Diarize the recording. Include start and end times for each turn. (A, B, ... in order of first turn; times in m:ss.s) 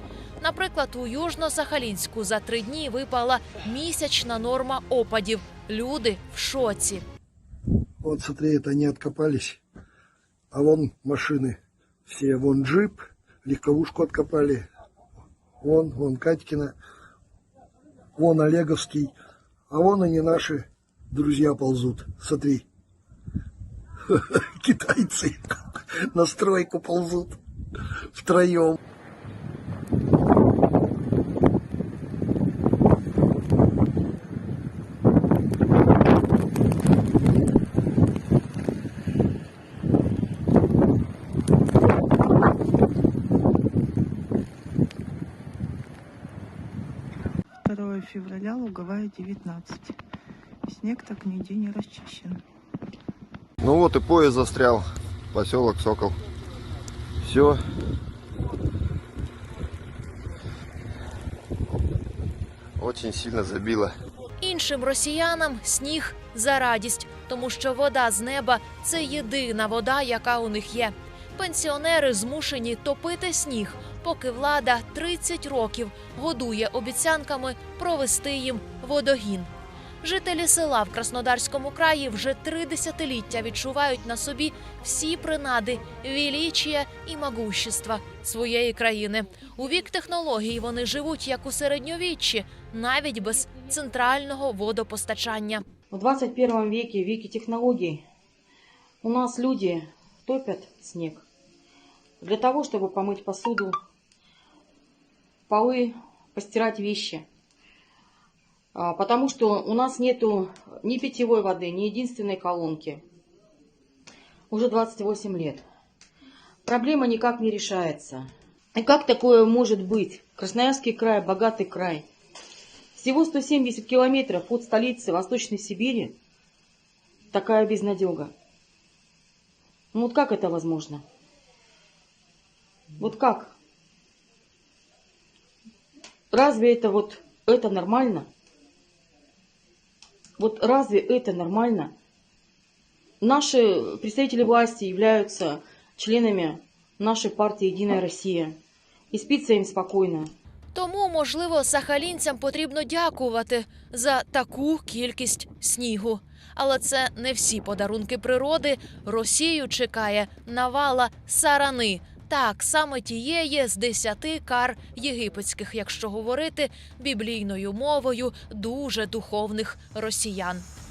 0:00.4-0:07.0 A
0:08.0-0:09.6 B
0:10.5-0:14.6 B
0:15.6-0:16.7 B
0:18.2-0:19.1 B
0:19.7-0:22.6 B
0:24.1-0:27.4 B
0:28.1-0:28.8 B
0:47.6-0:50.0 C
0:50.7-0:52.4 C
0:53.6-0:56.1 D
0:57.2-0:57.6 D
1:02.8-1:03.9 D
1:04.4-1:35.6 A
1:35.9-1:38.0 E
1:39.0-1:41.2 E
1:42.2-1:43.8 E
1:45.5-1:47.3 E
1:48.7-1:53.0 E
1:54.5-1:55.6 E
1:56.6-2:02.1 E
2:02.9-2:06.2 E
2:07.3-2:08.3 E
2:09.9-2:11.0 E
2:13.0-2:13.6 E
2:16.3-2:18.3 E
2:20.4-2:21.9 E
2:23.2-2:28.6 E
2:29.1-2:30.3 E
2:30.7-2:50.6 A